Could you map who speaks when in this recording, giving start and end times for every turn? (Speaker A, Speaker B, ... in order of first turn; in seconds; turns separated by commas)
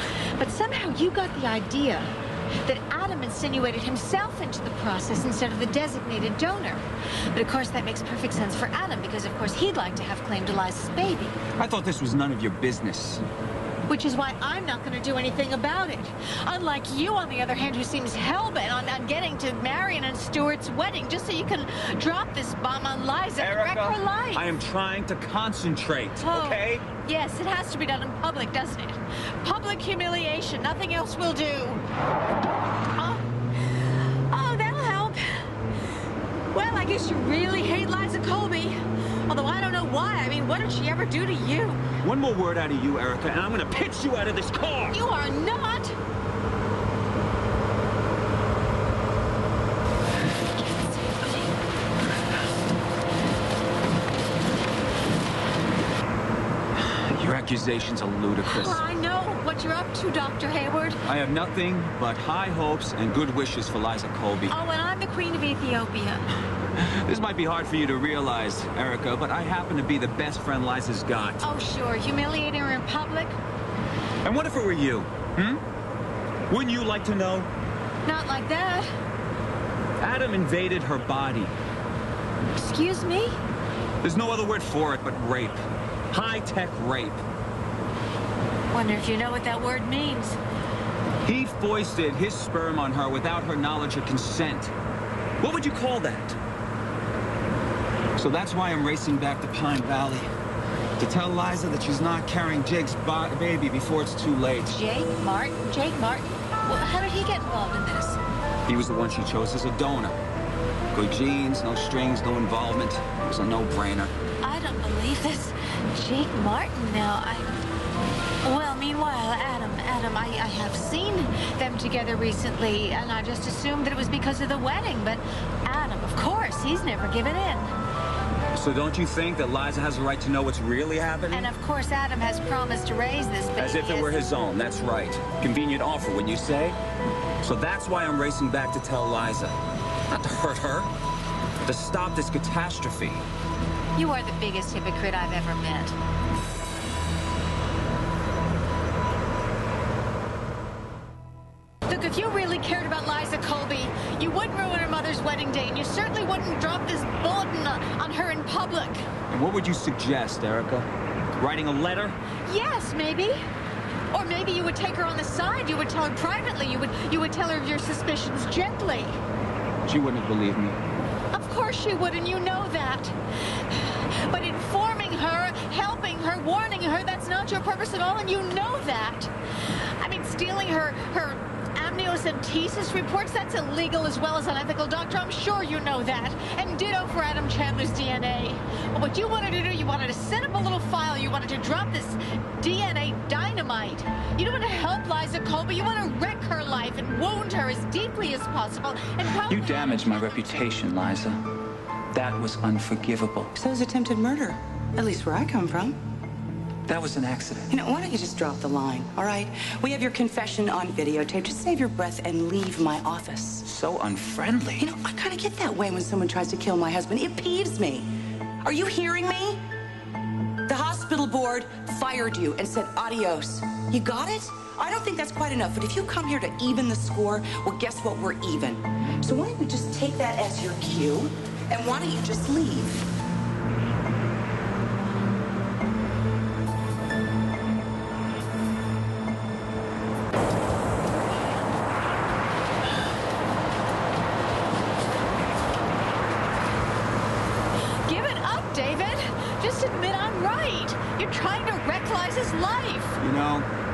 Speaker A: 0.4-2.1, Speaker A: 2.6-11.4, Speaker B: 11.6-13.2, Speaker A: 13.9-24.5, Speaker B: 23.4-26.9, Speaker A: 26.2-31.8, Speaker A: 32.9-35.6, Speaker A: 36.5-41.9, Speaker B: 42.0-45.0, Speaker A: 44.7-46.0, Speaker A: 50.4-51.5, Speaker B: 56.8-58.8, Speaker A: 58.4-61.0, Speaker B: 61.1-64.5, Speaker A: 64.5-66.3, Speaker B: 66.8-71.5, Speaker A: 71.4-73.4, Speaker B: 74.2-75.6, Speaker B: 76.5-77.5, Speaker A: 78.0-78.9, Speaker B: 80.0-81.5, Speaker A: 82.6-83.4, Speaker B: 84.0-85.6, Speaker B: 86.1-87.2, Speaker A: 88.7-90.4, Speaker B: 91.2-94.7, Speaker B: 95.4-96.4, Speaker B: 98.2-100.3, Speaker B: 101.0-104.7, Speaker A: 104.7-108.2, Speaker B: 108.7-110.2, Speaker B: 110.9-114.1, Speaker A: 114.4-117.6, Speaker A: 118.4-127.7, Speaker B: 128.5-131.5, Speaker A: 131.3-134.3, Speaker B: 133.6-136.8, Speaker B: 137.4-139.6, Speaker B: 140.1-140.9, Speaker B: 141.6-143.2, Speaker A: 143.9-146.0, Speaker A: 151.9-159.1, Speaker B: 159.3-160.9, Speaker B: 161.4-162.2, Speaker A: 162.4-163.5, Speaker A: 164.1-169.2, Speaker B: 169.9-170.8, Speaker A: 171.3-200.4, Speaker C: 199.5-201.4, Speaker C: 202.1-203.5, Speaker D: 203.6-206.0, Speaker C: 206.9-207.7, Speaker D: 207.7-213.7, Speaker C: 213.6-214.9, Speaker D: 214.8-218.1, Speaker D: 218.6-219.6, Speaker D: 220.7-233.1, Speaker A: 248.0-253.2, Speaker B: 253.2-253.7